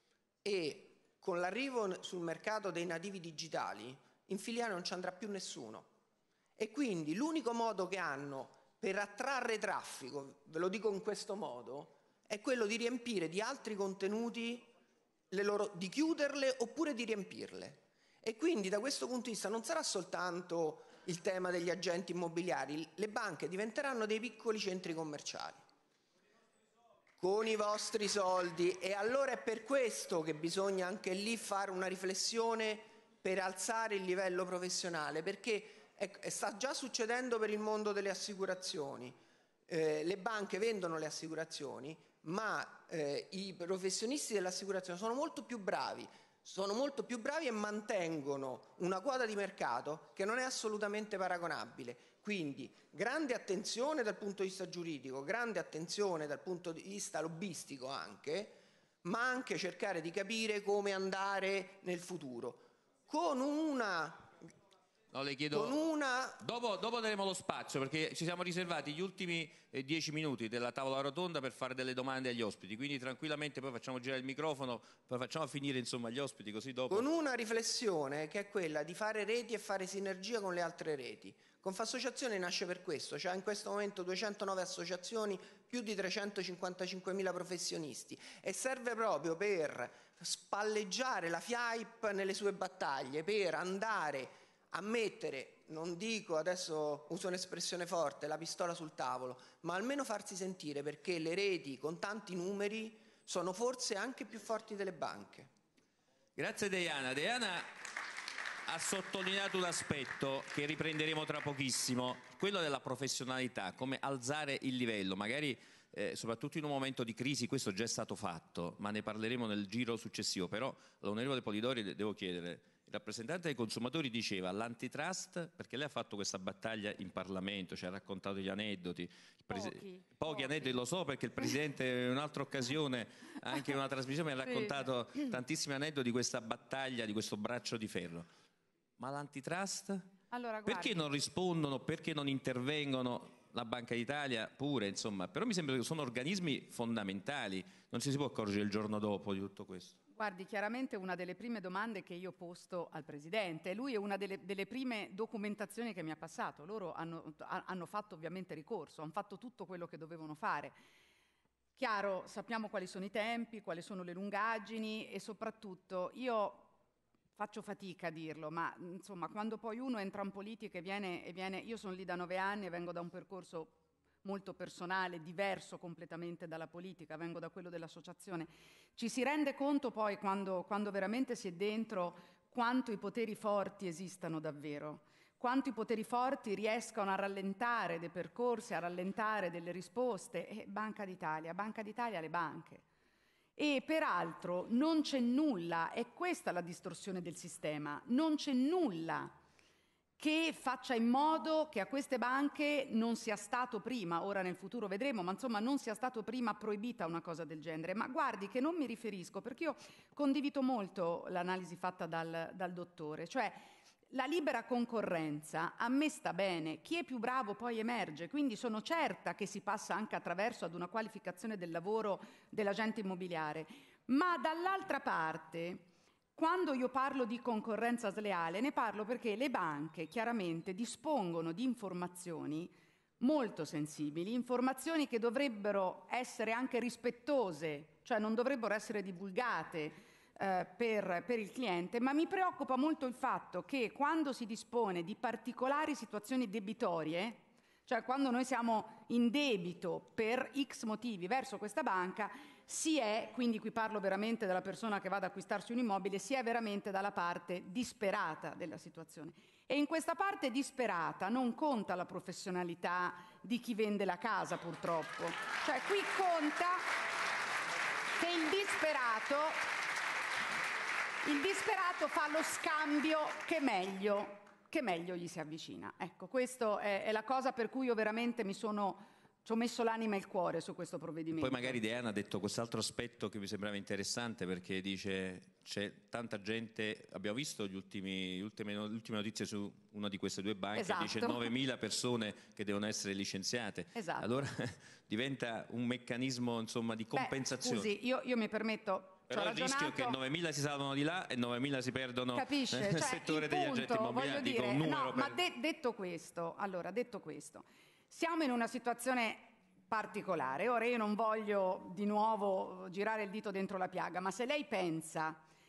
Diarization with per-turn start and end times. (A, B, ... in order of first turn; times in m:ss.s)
0:00.4-0:05.9 A
0:06.6-0:14.7 A
0:15.3-0:25.6 A
0:27.2-1:04.3 A
1:05.1-1:05.8 B
1:05.5-1:06.4 A
1:06.4-1:17.0 B
1:16.9-1:45.5 A
1:46.4-1:47.7 B
1:48.7-2:18.3 B
2:09.5-2:10.8 C
2:14.4-2:14.8 C
2:19.0-2:20.1 B
2:20.3-2:21.1 C
2:20.6-2:30.0 B
2:30.1-2:40.8 C
2:41.8-2:46.7 C
2:47.4-3:12.8 C
3:13.6-3:19.4 C
3:20.2-4:26.9 C
4:28.2-4:29.6 C
4:31.2-4:41.8 C
4:41.4-4:57.9 B
4:50.7-4:51.5 C
4:53.9-4:54.3 C
4:57.1-5:00.2 C
4:59.3-5:05.3 B
5:02.3-5:15.4 C